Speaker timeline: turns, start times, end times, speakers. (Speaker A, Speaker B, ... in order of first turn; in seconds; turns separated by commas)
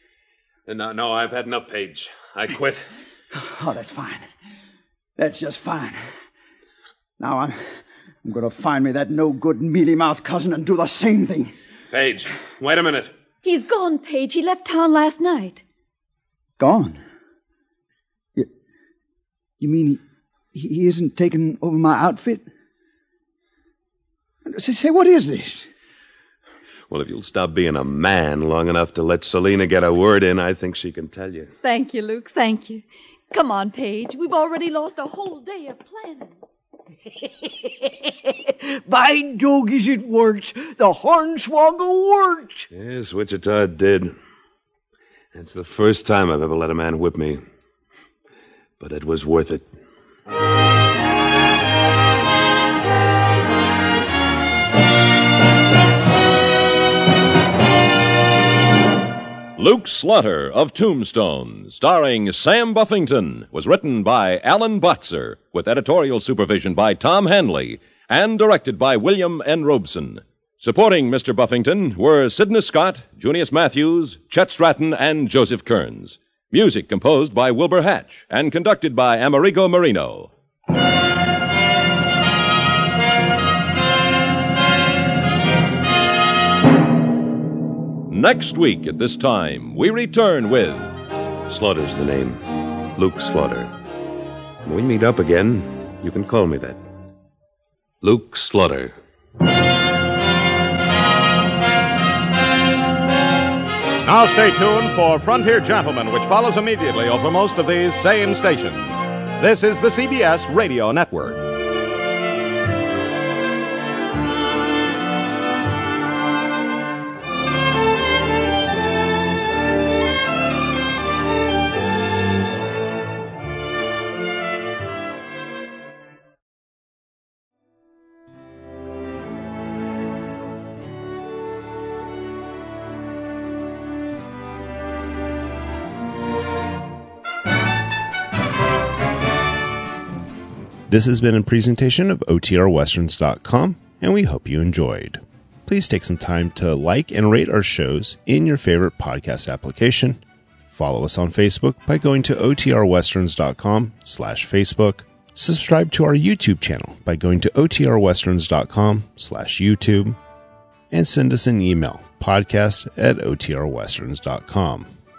Speaker A: 0.7-2.8, Speaker B: 3.3-4.2, Speaker B: 5.2-6.0, Speaker B: 7.2-7.6, Speaker B: 8.2-11.5, Speaker A: 11.9-13.1, Speaker C: 13.4-15.6, Speaker B: 16.6-17.0, Speaker B: 19.6-20.0, Speaker B: 20.5-22.4, Speaker B: 24.4-25.7, Speaker A: 26.9-31.5, Speaker C: 31.6-36.3, Speaker D: 37.1-42.6, Speaker A: 42.7-44.1, Speaker A: 45.3-47.4, Speaker A: 48.8-49.6, Speaker E: 59.5-80.3, Speaker E: 88.1-90.9, Speaker A: 91.5-93.7, Speaker A: 94.6-96.8, Speaker A: 98.0-98.9, Speaker F: 104.0-111.4, Speaker G: 140.9-160.2, Speaker G: 160.9-164.9